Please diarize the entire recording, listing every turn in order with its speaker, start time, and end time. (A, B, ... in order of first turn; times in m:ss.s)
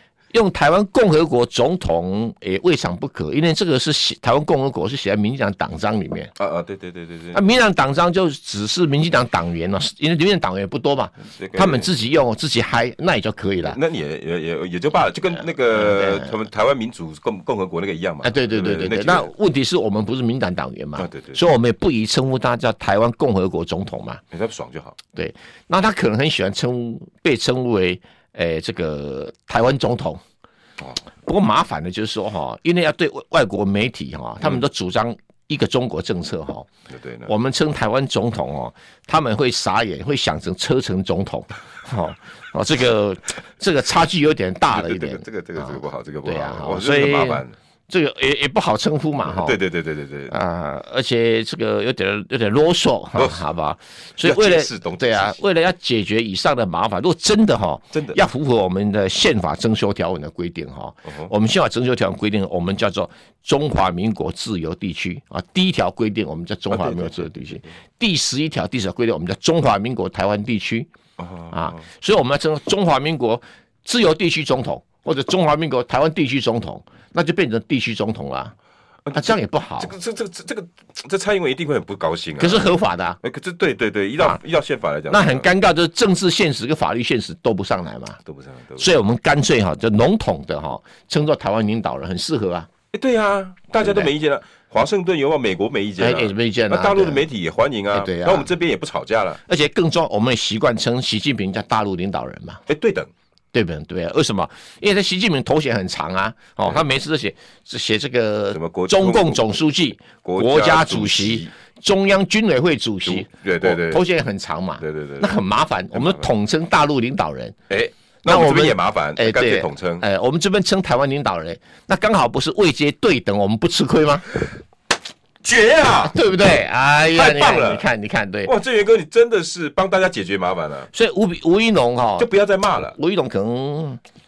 0:00.3-0:06.3 A
0:06.4-0:07.4 B
0:07.3-0:13.8 A
0:11.3-0:11.9 B
0:13.6-0:19.3 B
0:15.7-0:16.3 A
0:18.2-0:24.2 A
0:21.0-0:21.4 B
0:24.3-0:25.0 B
0:25.1-0:30.2 A
0:31.2-0:36.7 A
0:36.9-0:37.3 B
0:37.3-0:49.6 A
0:44.7-0:47.5 B
0:49.2-0:50.3 B
0:50.3-1:10.9 A
0:53.1-0:53.4 B
0:54.2-0:55.4 B
0:57.9-0:58.2 B
1:01.0-1:01.3 B
1:06.7-1:07.7 B
1:11.2-1:11.8 B
1:11.5-1:18.5 A
1:19.0-1:25.5 B
1:19.1-1:19.9 A
1:22.4-1:23.2 A
1:25.1-1:28.2 A
1:28.2-1:28.9 B
1:28.8-1:32.7 A
1:32.9-1:39.4 B
1:33.8-1:34.1 A
1:36.0-1:37.2 A
1:37.9-1:38.5 A
1:39.4-1:42.6 A
1:42.7-1:43.1 B
1:43.5-1:57.6 A
1:48.5-1:49.4 B
1:50.2-1:51.5 B
1:53.0-1:54.0 B
1:54.8-1:55.4 B
1:55.9-1:56.3 B
1:57.7-2:00.0 B
1:58.2-2:04.5 A
2:05.4-2:06.2 B
2:05.9-2:08.5 A
2:07.1-2:07.9 B
2:08.4-2:10.9 B
2:10.9-2:12.3 A
2:12.2-2:13.0 B
2:12.9-2:14.0 A